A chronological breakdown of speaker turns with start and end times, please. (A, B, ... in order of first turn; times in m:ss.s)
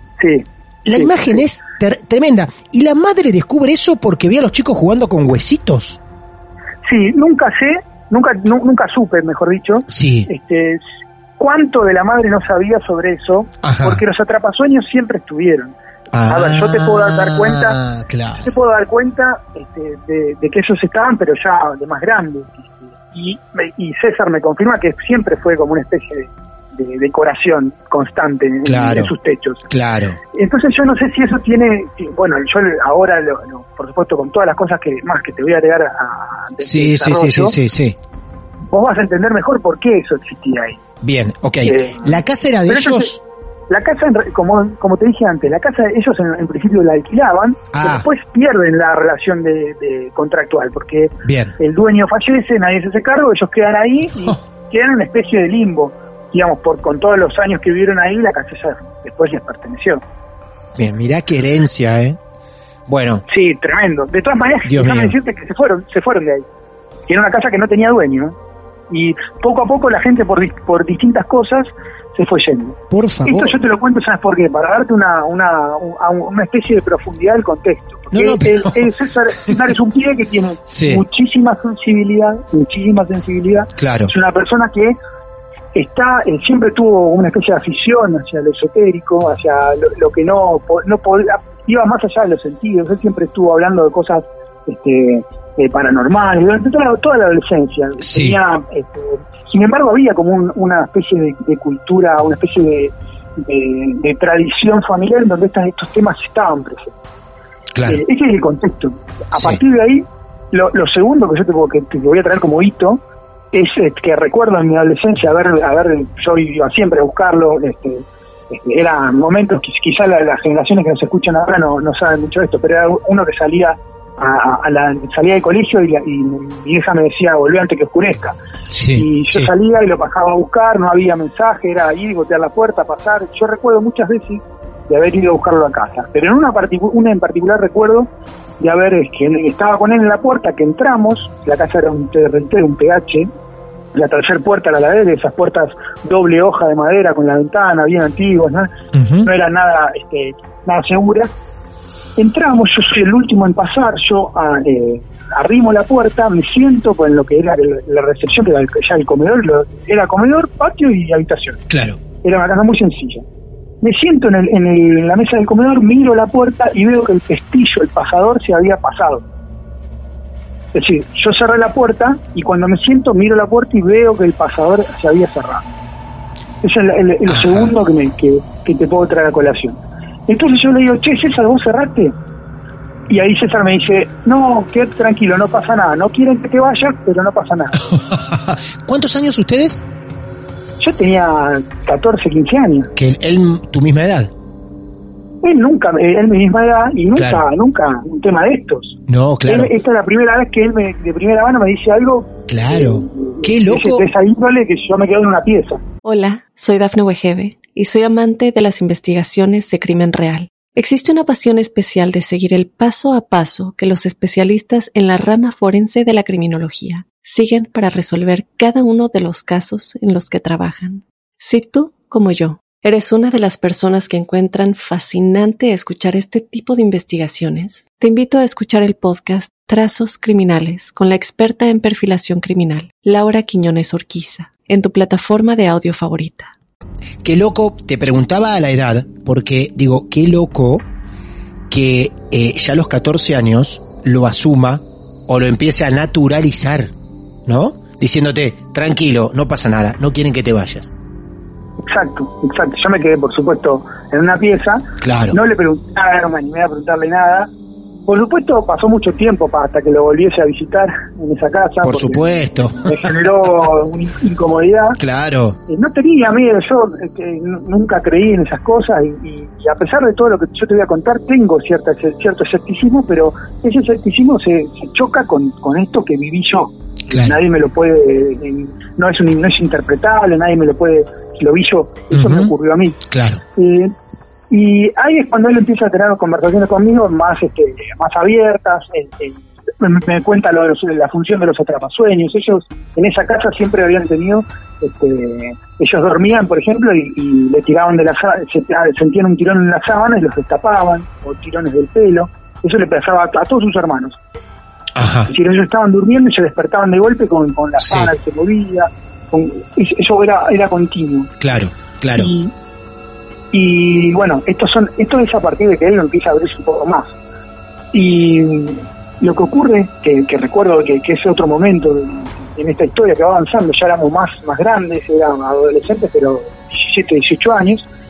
0:00.2-0:01.4 A
0:00.8-0:06.0 B
0:06.8-0:10.8 A
0:09.9-0:10.3 B
0:11.4-0:15.8 A
0:13.6-0:14.0 B
0:16.1-0:18.5 B
0:16.3-0:17.8 A
0:18.4-0:29.6 A
0:28.6-0:29.1 B
0:29.7-0:30.2 B
0:30.3-0:37.6 A
0:36.6-0:38.0 B
0:38.7-0:40.8 A
0:41.0-0:43.2 B
0:41.6-0:43.2 A
0:43.7-1:00.0 A
0:47.7-0:48.1 B
0:51.2-0:51.6 B
1:00.8-1:02.2 B
1:02.9-1:03.2 B
1:03.3-1:06.5 A
1:04.7-1:05.2 B
1:07.1-1:08.4 A
1:08.9-1:25.0 A
1:12.9-1:13.6 B
1:18.1-1:18.9 B
1:20.7-1:21.0 B
1:23.8-1:24.1 B
1:25.7-1:46.9 A
1:38.0-1:38.4 B
1:47.7-1:48.0 B
1:47.9-1:53.0 A
1:49.3-1:49.6 B
1:53.5-2:08.4 A
2:08.7-2:09.5 B
2:09.0-2:18.1 A
2:18.6-2:23.3 A
2:23.9-2:28.7 A
2:28.9-2:29.3 B
2:29.2-2:31.3 A
2:32.2-2:41.6 A
2:41.7-2:42.0 B
2:42.2-2:43.2 A
2:43.8-2:49.2 A
2:50.7-2:55.7 A
2:56.6-2:59.8 A
2:57.3-2:57.7 B
3:00.3-3:02.2 A
3:03.1-3:07.8 A
3:07.8-3:09.8 B
3:10.8-3:12.9 A
3:13.0-3:14.3 B
3:15.4-3:25.8 A
3:17.2-3:17.4 B
3:19.1-3:19.7 B
3:22.5-3:24.1 B
3:26.0-3:56.5 C
3:57.2-4:00.9 B
4:01.7-4:06.9 B
4:07.5-4:10.9 B
4:11.9-4:17.5 A
4:15.0-4:15.4 B
4:18.1-4:22.3 A
4:21.8-4:23.2 B
4:22.8-4:25.0 A
4:25.0-4:25.6 B
4:25.7-4:43.0 A
4:37.1-4:37.4 B
4:42.1-4:42.5 B
4:43.1-4:43.4 B
4:43.6-4:43.9 A
4:44.5-5:04.2 A
5:05.0-5:05.3 B
5:05.3-5:11.4 A
5:07.8-5:08.1 B
5:11.4-5:12.3 B
5:12.1-5:12.5 A
5:13.5-5:17.1 A
5:17.9-5:27.9 A